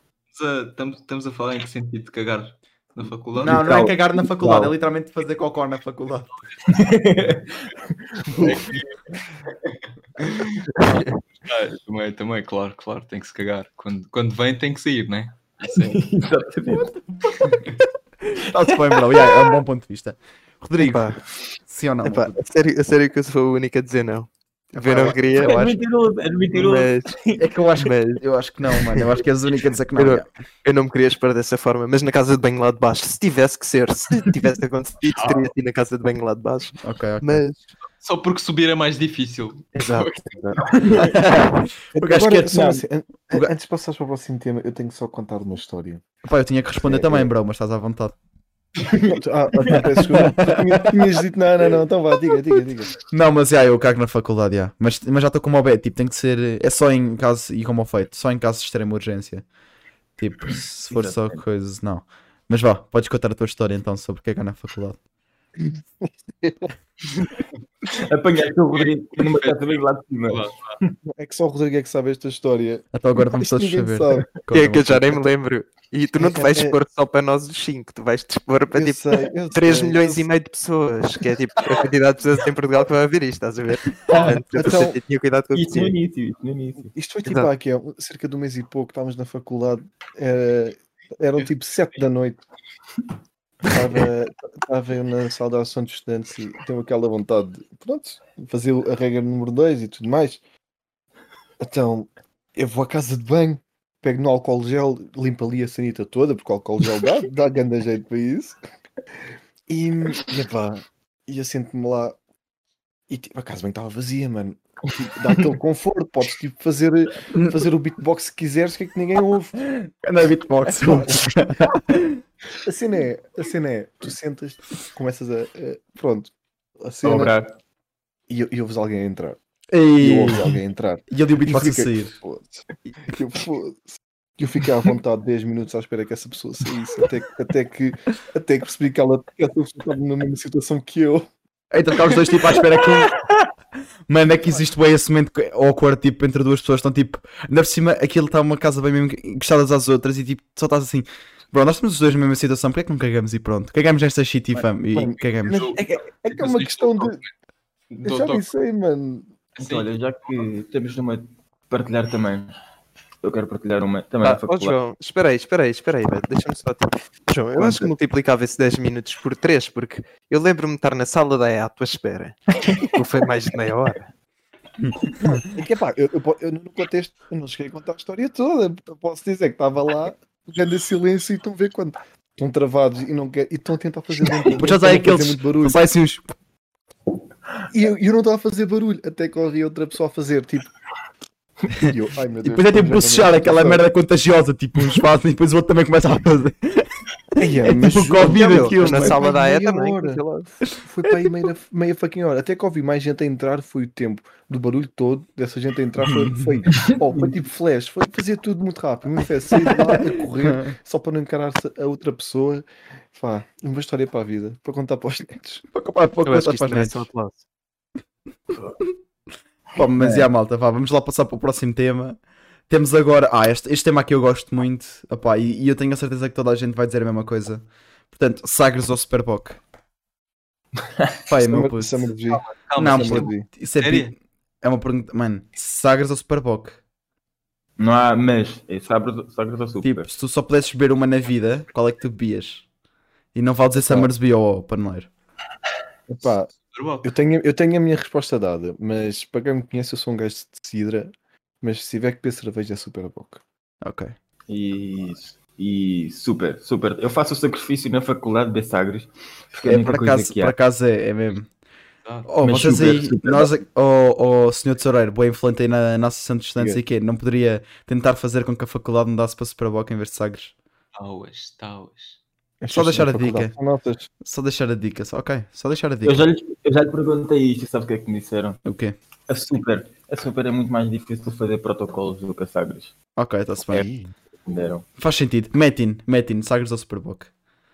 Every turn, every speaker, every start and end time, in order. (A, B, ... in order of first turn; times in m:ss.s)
0:00.3-0:03.6 A
0:03.4-0:04.7 B
0:03.4-0:06.3 C
0:06.7-0:07.7 B
0:08.3-0:08.9 A
0:10.2-0:16.0 A
0:10.8-0:11.1 D
0:15.8-0:17.4 B
0:18.2-0:21.1 C
0:18.6-0:19.3 B
0:20.8-0:21.2 D
0:21.7-0:22.4 C
0:22.0-0:25.6 D
0:24.7-0:25.8 C
0:25.4-0:27.4 B
0:26.5-0:27.2 D
0:27.4-0:30.3 C
0:27.8-0:28.2 D
0:28.8-0:29.1 D
0:30.0-0:37.6 D
0:35.2-0:35.5 A
0:36.8-0:37.4 C
0:38.0-0:40.3 A
0:39.7-0:40.6 D
0:40.6-0:41.2 B
0:41.0-0:42.6 C
0:42.0-0:46.0 E
0:42.4-0:42.8 B
0:46.2-0:48.2 C
0:46.8-0:47.3 E
0:48.9-0:49.8 B
0:49.0-0:52.9 E
0:50.1-0:50.8 C
0:53.1-0:59.4 C
1:00.2-1:05.0 C
1:00.9-1:01.4 B
1:05.6-1:06.7 E
1:07.9-1:11.0 B
1:10.3-1:10.8 A
1:11.1-1:14.3 E
1:12.9-1:15.2 C
1:14.5-1:25.9 D
1:16.2-1:16.8 E
1:18.7-1:20.3 E
1:24.2-1:25.0 E
1:25.5-1:26.9 B
1:26.9-1:32.4 E
1:33.6-1:40.4 E
1:41.6-1:48.6 E
1:49.7-1:52.2 E
1:53.1-1:59.6 E
1:57.3-1:57.6 C
1:59.8-2:02.2 C
2:00.8-2:01.2 E
2:02.6-2:07.3 E
2:07.0-2:07.6 B
2:08.3-2:09.4 E
2:09.7-2:10.6 C
2:10.0-2:21.3 E
2:11.1-2:12.2 C
2:21.7-2:23.2 C
2:24.1-2:35.7 C
2:34.9-2:37.2 E
2:35.5-2:37.3 A
2:37.9-2:38.5 A
2:38.0-2:39.3 E
2:39.6-2:42.6 B
2:39.6-2:39.9 A
2:43.2-2:44.8 B
2:44.2-2:54.1 D
2:55.5-3:05.8 E
3:04.5-3:06.3 C
3:07.7-3:10.7 E
3:11.8-3:13.8 E
3:12.4-3:19.2 C
3:17.4-3:35.6 E
3:18.2-3:20.5 D
3:30.4-3:30.7 C
3:35.7-3:37.1 C
3:36.2-3:37.4 D
3:39.8-3:49.6 C
3:40.0-3:40.3 B
3:51.3-3:52.1 C
3:51.4-3:53.5 E
3:52.3-3:54.1 A
3:52.8-3:56.8 C
3:57.8-4:00.1 B
3:59.8-4:02.6 C
4:03.4-4:05.1 C
4:03.8-4:04.1 E
4:06.1-4:06.5 E
4:06.3-4:07.1 A
4:07.0-4:11.1 E
4:11.6-4:13.4 E
4:13.8-4:14.1 C
4:14.5-4:20.6 B
4:19.6-4:21.5 C
4:22.3-4:30.5 C
4:22.4-4:23.5 B
4:31.0-4:32.2 A
4:32.6-4:34.1 E
4:32.7-4:33.5 C
4:34.2-4:36.3 C
4:36.0-4:38.6 B
4:38.6-4:39.0 C
4:39.3-4:42.9 B
4:43.2-4:43.9 C
4:44.5-4:44.8 B
4:45.0-4:47.3 C